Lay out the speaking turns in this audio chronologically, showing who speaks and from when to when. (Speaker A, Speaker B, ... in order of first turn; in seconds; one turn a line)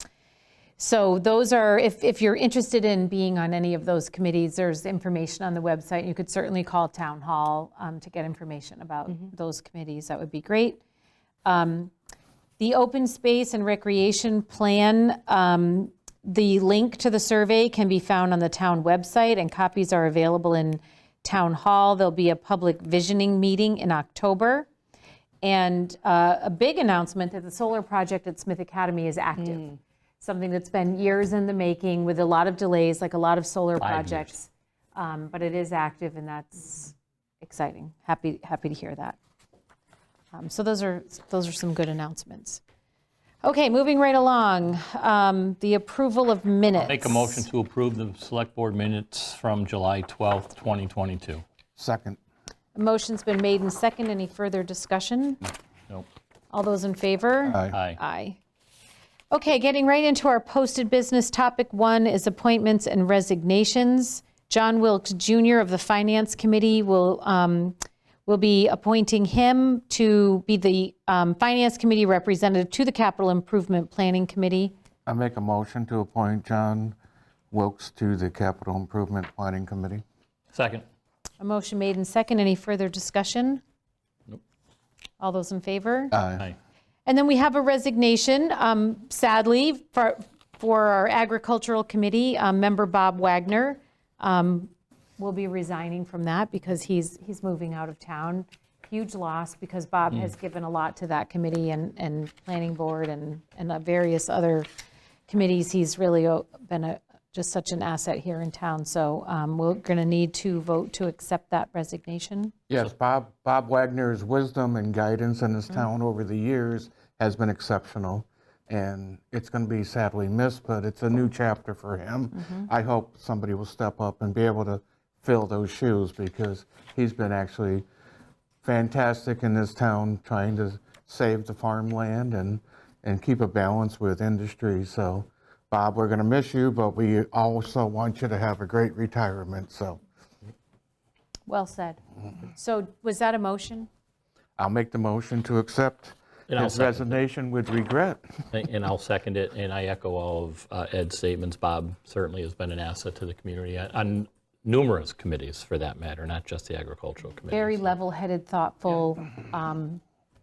Speaker A: 0.8-10.8
Speaker A: 11.4-11.9
Speaker A: 12.6-24.7
Speaker A: 25.4-39.2
Speaker B: 33.8-34.3
Speaker A: 40.3-42.6
Speaker A: 43.4-47.5
Speaker B: 46.8-51.4
Speaker C: 51.8-52.2
Speaker A: 52.8-55.4
Speaker A: 56.5-58.4
Speaker C: 57.5-57.8
Speaker B: 57.7-58.0
Speaker A: 59.3-74.7
Speaker C: 75.1-77.0
Speaker C: 77.5-80.0
Speaker B: 80.5-80.8
Speaker A: 81.4-83.6
Speaker A: 85.2-86.2
Speaker C: 86.1-86.5
Speaker A: 87.1-104.7
Speaker A: 105.3-112.5
Speaker C: 112.7-127.8
Speaker A: 122.4-122.7
Speaker C: 128.6-140.0
Speaker A: 141.5-143.9
Speaker C: 144.6-148.4
Speaker B: 146.5-147.2
Speaker B: 148.5-157.9
Speaker A: 157.5-160.0